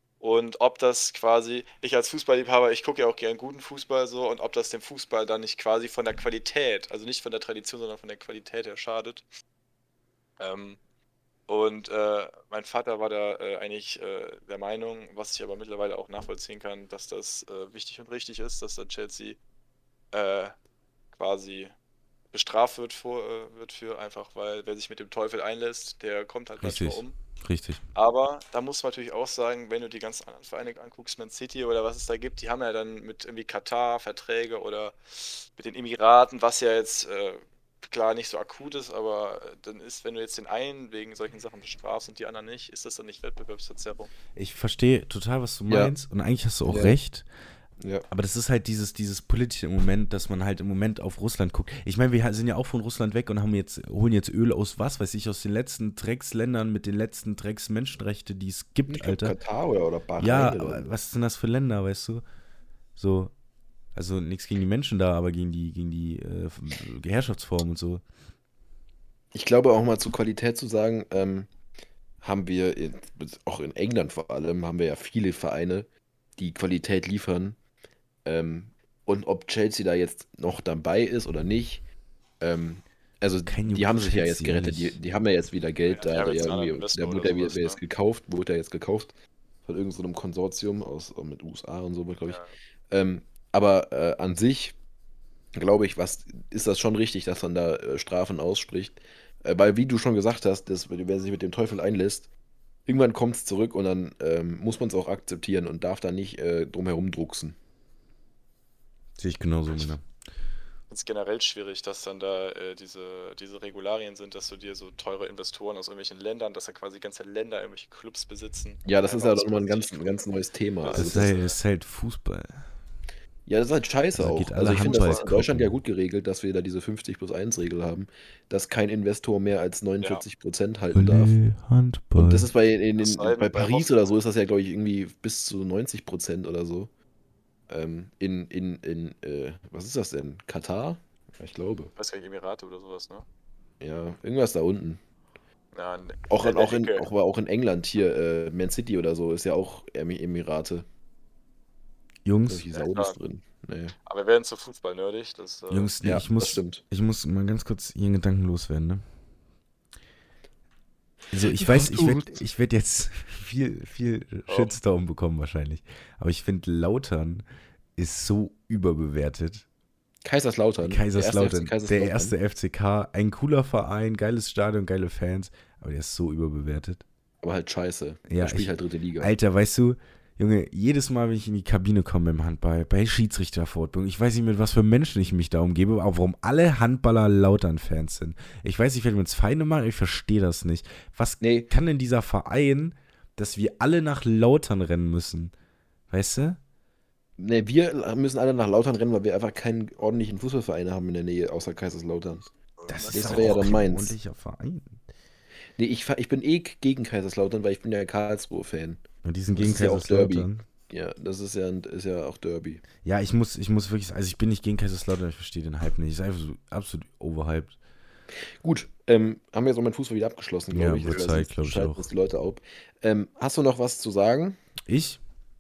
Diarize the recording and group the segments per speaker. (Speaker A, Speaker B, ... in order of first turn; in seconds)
Speaker A: 0.2-9.3, 10.4-10.8, 11.5-19.4, 20.1-20.5, 21.1-21.7, 22.3-27.1, 27.9-44.1, 85.9-87.8, 92.3-92.5, 110.9-120.2, 120.8-121.5, 124.8-125.3, 133.0-134.1, 142.0-143.2, 145.7-147.1, 152.7-153.2, 154.1-155.9, 164.5-164.8, 202.8-203.8
Speaker B: 26.6-27.8, 44.4-47.3, 48.1-59.4, 60.2-62.2, 63.0-63.3, 64.0-68.0, 83.5-85.0, 109.2-110.0, 120.9-122.7, 124.2-125.8, 130.9-132.5, 152.2-152.7, 155.7-159.0, 161.3-167.4, 168.0-169.7, 170.8-177.0, 178.3-195.5, 196.1-196.6, 202.9-205.0, 209.2-210.7, 213.0-217.8, 220.7-222.1, 224.9-225.2
Speaker C: 45.7-45.9, 46.7-47.0, 47.8-48.1, 58.9-60.9, 69.3-71.5, 72.2-77.6, 78.2-81.8, 82.4-89.1, 89.7-94.8, 95.6-102.3, 102.9-107.6, 118.9-121.3, 123.5-131.3, 132.2-136.9, 137.7-141.9, 143.8-145.0, 146.3-150.9, 152.5-153.9, 156.0-156.8, 161.6-162.4, 170.2-172.4, 177.4-179.3, 191.4-191.7, 197.4-202.5, 203.1-204.2, 205.8-209.0, 209.5-212.8, 218.5-224.6